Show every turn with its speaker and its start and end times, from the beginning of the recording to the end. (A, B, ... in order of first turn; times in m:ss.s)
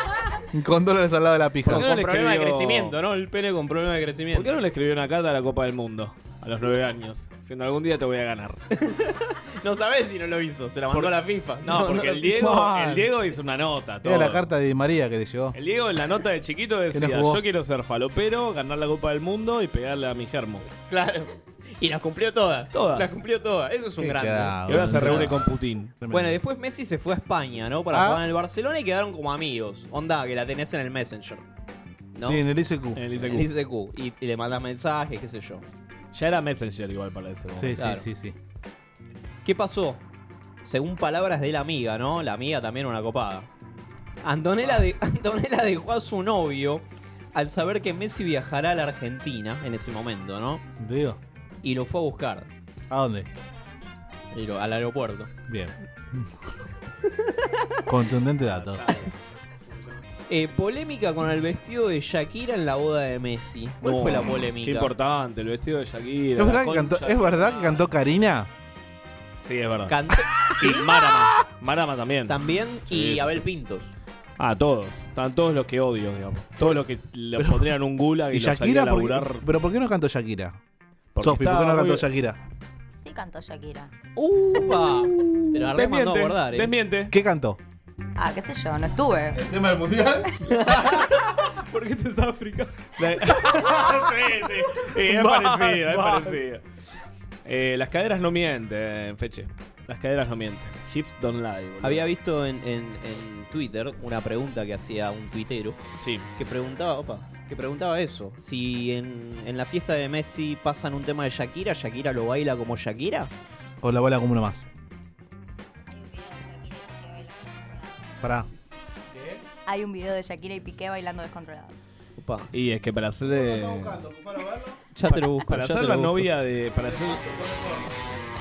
0:00.5-0:01.9 A
0:01.6-0:02.9 B
0:01.6-0:04.5 C
0:04.3-0:08.6 B
0:08.8-0:12.3 C
0:10.9-0:14.5 B
0:12.3-0:13.1 A
0:14.0-0:15.6 A
0:15.5-0:20.6 B
0:16.9-0:17.4 A
0:20.9-0:25.3 C
0:22.7-0:23.1 B
0:24.0-0:26.4 A
0:24.6-0:25.9 B
0:26.1-0:31.4 C
0:27.9-0:28.2 A
0:32.1-0:32.4 C
0:32.2-0:33.0 A
0:32.9-0:33.5 B
0:33.2-0:35.6 C
0:36.1-0:37.8 B
0:37.5-0:38.3 A
0:37.8-0:38.0 C
0:39.4-0:40.0 C
0:40.6-0:43.5 C
0:44.2-0:50.6 C
0:50.8-0:51.2 A
0:51.6-0:52.5 C
0:52.9-0:53.3 A
0:54.3-0:55.3 C
0:55.5-0:56.3 A
0:57.8-0:58.9 A
0:58.5-1:00.0 B
1:00.3-1:04.9 C
1:03.8-1:07.8 B
1:06.4-1:08.5 A
1:09.4-1:10.0 B
1:09.9-1:10.8 C
1:10.5-1:13.4 B
1:12.3-1:13.9 C
1:14.4-1:19.4 B
1:17.4-1:17.7 A
1:18.3-1:20.6 A
1:21.1-1:22.0 B
1:21.2-1:22.4 A
1:23.0-1:23.9 D
1:24.2-1:26.7 C
1:25.4-1:27.1 B
1:27.1-1:27.6 A
1:28.2-1:29.4 D
1:29.3-1:30.3 A
1:30.5-1:31.2 C
1:31.7-1:33.4 C
1:33.0-1:36.6 B
1:35.0-1:36.4 A
1:37.4-1:42.0 B
1:41.8-1:45.8 C
1:46.0-1:46.3 B
1:46.4-1:53.3 C
1:53.8-1:54.6 A
1:55.9-1:58.2 D
1:58.2-1:58.5 A
1:59.6-2:01.7 D
2:02.2-2:02.5 C
2:02.5-2:04.0 B
2:03.3-2:04.8 A
2:04.9-2:06.2 C
2:05.1-2:07.5 B